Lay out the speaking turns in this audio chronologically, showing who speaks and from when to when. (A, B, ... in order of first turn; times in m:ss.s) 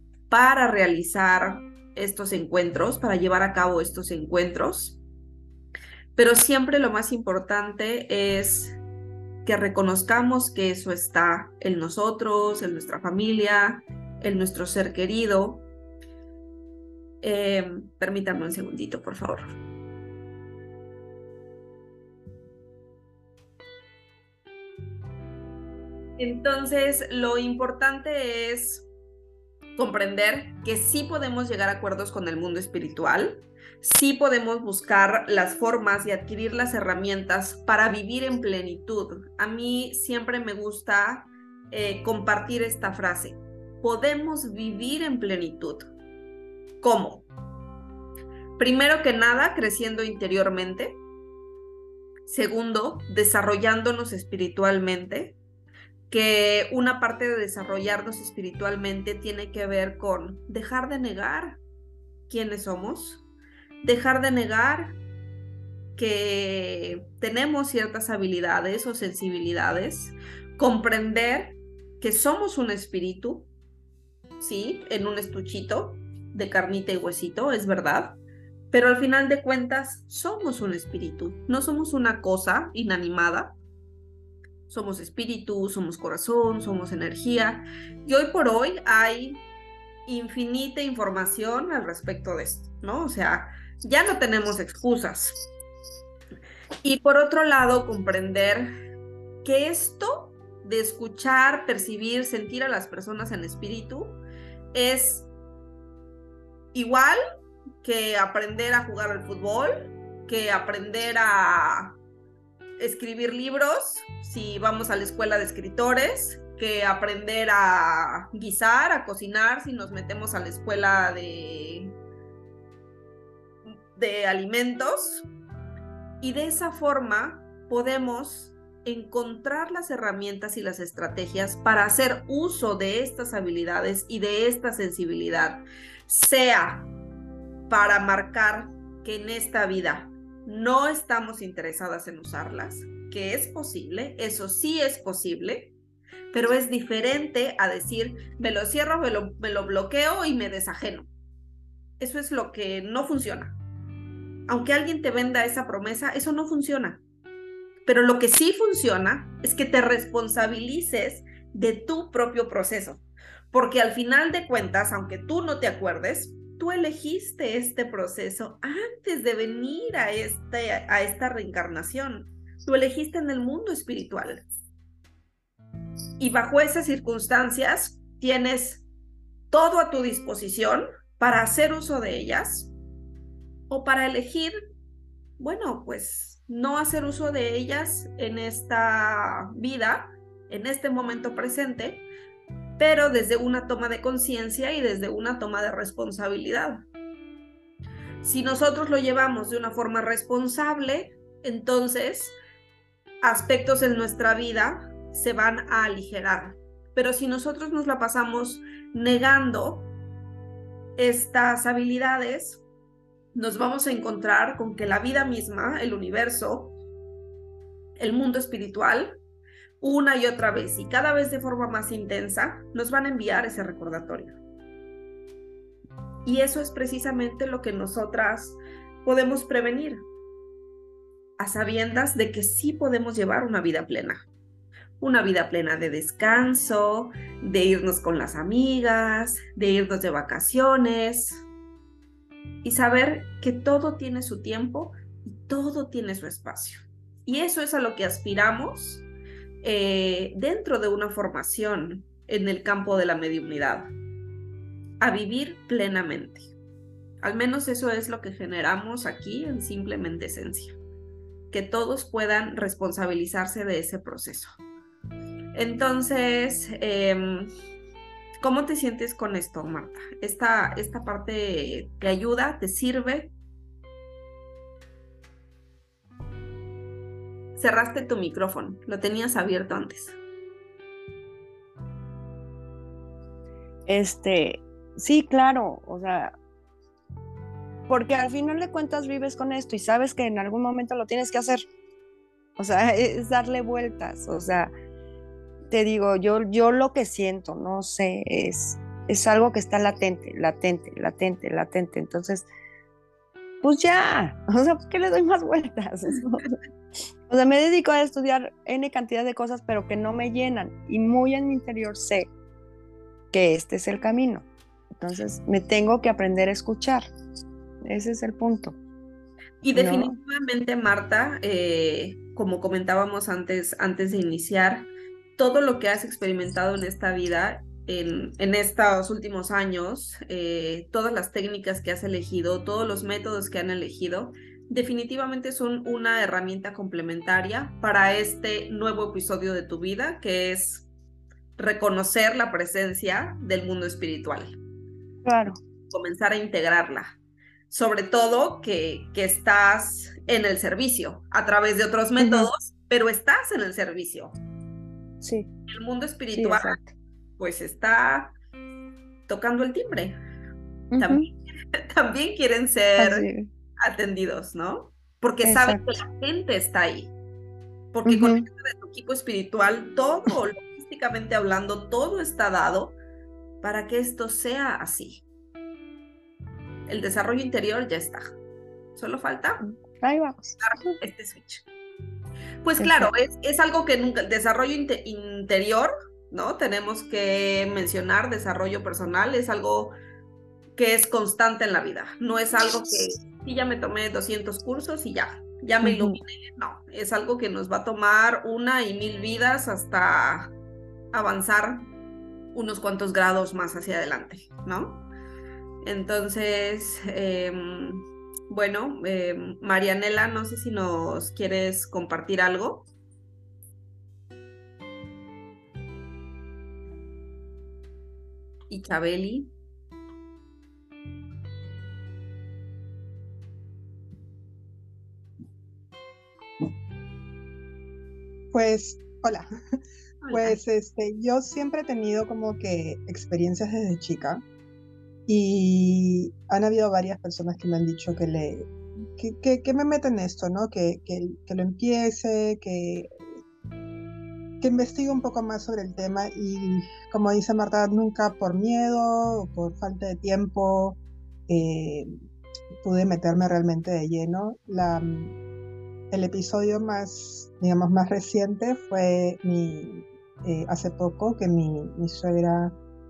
0:00.3-0:05.0 A
0:06.2-0:08.8 A
0:09.4-0:15.6 A
0:17.2-0:19.5 A
0:26.2-0:28.9 A
0:29.8-0:45.9 A
0:46.8-0:47.2 A
0:48.6-0:51.0 A
0:52.2-0:55.4 A
0:56.1-1:01.6 A
1:02.3-1:03.2 A
1:03.8-1:05.0 A
1:06.0-1:13.5 A
1:14.4-1:18.2 A
1:18.7-1:23.6 A
1:24.7-1:29.4 A
1:30.1-1:35.4 A
1:36.8-1:38.7 A
1:39.4-1:44.2 A
1:44.7-1:45.3 A
1:46.7-1:47.2 A
1:47.8-1:52.0 A
1:52.8-2:01.9 A
2:03.9-2:05.3 A
2:06.2-2:16.9 A
2:17.7-2:25.7 A
2:26.3-2:31.1 A
2:32.0-2:33.6 A
2:34.5-2:37.0 A
2:37.8-2:54.5 A
2:56.2-2:58.8 A
2:59.5-3:02.7 A
3:03.7-3:04.5 A
3:05.4-3:12.0 A
3:12.8-3:16.8 A
3:18.2-3:22.4 A
3:23.2-3:29.9 A
3:31.0-3:32.6 A
3:33.3-3:36.7 A
3:38.0-3:39.2 A
3:39.8-3:44.4 A
3:46.2-3:50.0 A
3:51.4-3:54.2 A
3:55.0-4:01.4 A
4:02.6-4:09.1 A
4:09.6-4:13.9 A
4:15.0-4:16.5 A
4:17.2-4:20.7 A
4:21.5-4:24.6 A
4:25.5-4:27.5 A
4:28.4-4:33.3 A
4:37.6-4:40.2 A
4:43.9-4:46.3 B
4:47.9-4:51.6 B
4:52.6-4:54.7 B
4:55.7-5:02.5 B
5:03.6-5:06.5 B
5:07.3-5:12.3 B
5:13.3-5:14.5 B
5:15.0-5:17.1 B
5:17.8-5:18.8 B
5:19.6-5:40.9 A
5:19.7-5:20.2 B
5:41.6-5:44.6 A
5:45.2-5:45.6 B
5:45.9-5:47.2 A
5:47.7-5:54.3 A
5:52.2-5:52.5 B
5:55.2-5:55.5 B
5:55.7-5:56.8 A
5:56.3-5:56.9 B
5:57.4-5:58.3 A
5:59.3-6:00.2 A
6:00.9-6:01.2 B
6:01.0-6:01.3 A
6:01.9-6:03.2 A
6:03.0-6:03.5 B
6:03.8-6:07.1 A
6:05.4-6:05.8 B
6:07.9-6:13.0 A
6:08.0-6:08.4 B
6:13.6-6:15.2 A
6:16.9-6:18.3 A
6:18.9-6:19.6 A
6:19.6-6:20.9 B
6:20.6-6:21.6 A
6:22.6-6:29.9 A
6:22.8-6:23.1 B
6:30.8-6:40.5 A
6:35.8-6:36.2 B
6:41.1-6:41.8 A
6:42.5-6:45.0 A
6:45.8-6:52.9 A
6:58.7-6:59.5 A
7:08.5-7:09.5 C
7:10.2-7:10.6 A
7:10.3-7:14.4 C
7:15.3-7:23.1 C
7:24.6-7:32.1 C
7:32.8-7:35.3 C
7:36.1-7:42.7 C